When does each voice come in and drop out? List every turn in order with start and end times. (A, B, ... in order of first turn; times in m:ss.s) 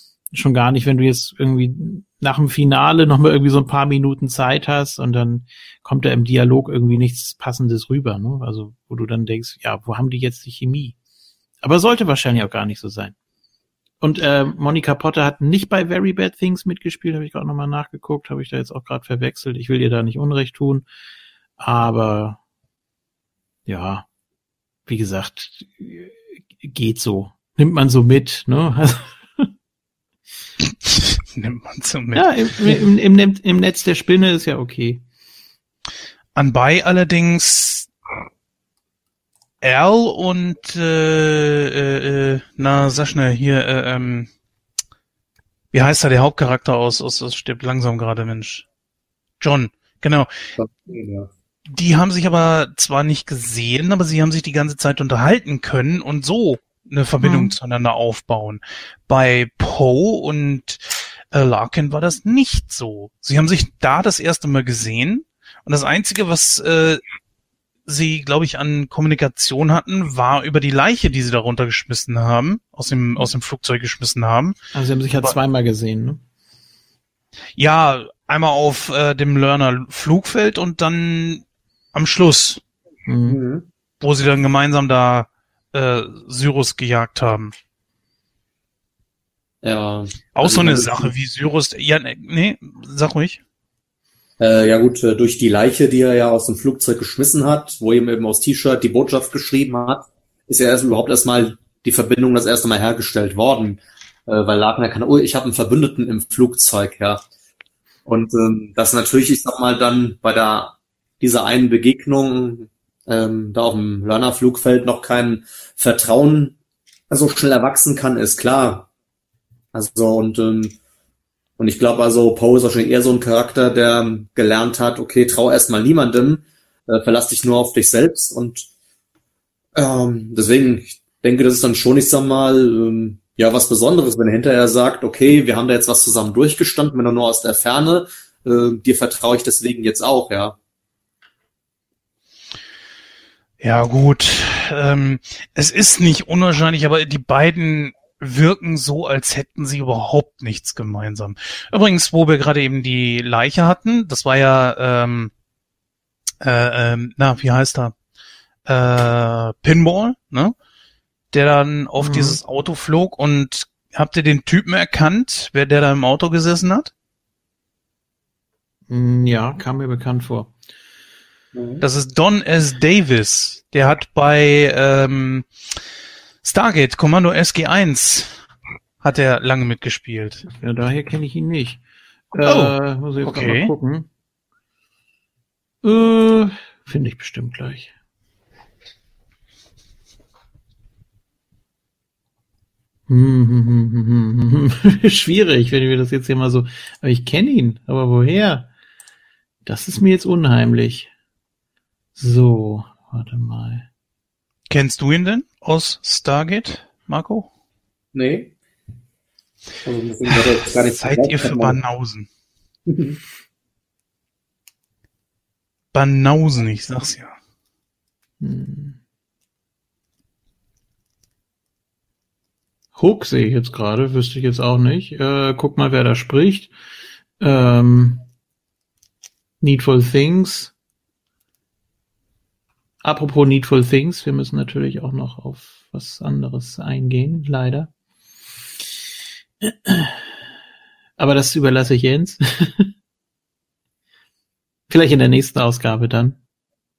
0:00.3-0:11.0 A
0:11.6-0:13.2 A
0:14.0-0:20.9 A
0:21.6-0:22.4 A
0:23.7-0:24.1 A
0:24.9-0:29.5 A
0:30.8-0:32.8 B
0:32.2-0:35.0 A
0:36.4-0:37.9 B
0:39.6-0:44.3 B
0:45.7-0:48.7 B
0:49.4-0:50.3 B
0:50.6-0:51.3 C
0:51.7-1:07.0 B
0:57.2-0:57.5 A
1:07.9-1:14.6 B
1:14.7-1:16.2 A
1:17.6-1:22.6 B
1:23.1-1:23.4 A
1:23.3-1:23.7 C
1:24.0-1:27.5 B
1:29.6-1:31.1 C
1:30.4-1:33.4 B
1:34.4-1:47.2 C
1:48.1-1:56.6 C
1:57.1-1:58.9 C
1:59.7-2:00.8 C
2:01.6-2:08.7 C
2:09.8-2:20.6 C
2:23.6-2:35.3 B
2:36.4-2:38.0 B
2:38.7-2:40.6 B
2:41.3-2:46.9 B
2:42.0-2:42.4 A
2:48.9-2:50.5 A
2:51.5-2:51.8 C
2:51.8-2:55.5 B
2:56.4-2:58.3 B
2:59.0-3:00.4 B
3:00.5-3:01.8 A
3:02.3-3:04.1 A
3:02.4-3:03.7 B
3:05.8-3:07.9 A
3:13.1-3:18.7 A
3:19.6-3:21.1 A
3:22.2-3:23.9 A
3:24.7-3:27.5 B
3:28.1-3:28.5 C
3:29.8-3:31.8 C
3:30.3-3:32.3 B
3:32.9-3:33.2 C
3:35.9-3:37.4 B
3:38.4-3:39.0 A
3:43.0-3:46.7 A
3:47.4-3:48.3 A
3:49.6-3:50.7 A
3:53.0-3:57.9 A
3:59.6-4:00.3 A
4:01.2-4:02.9 A
4:04.9-4:06.4 A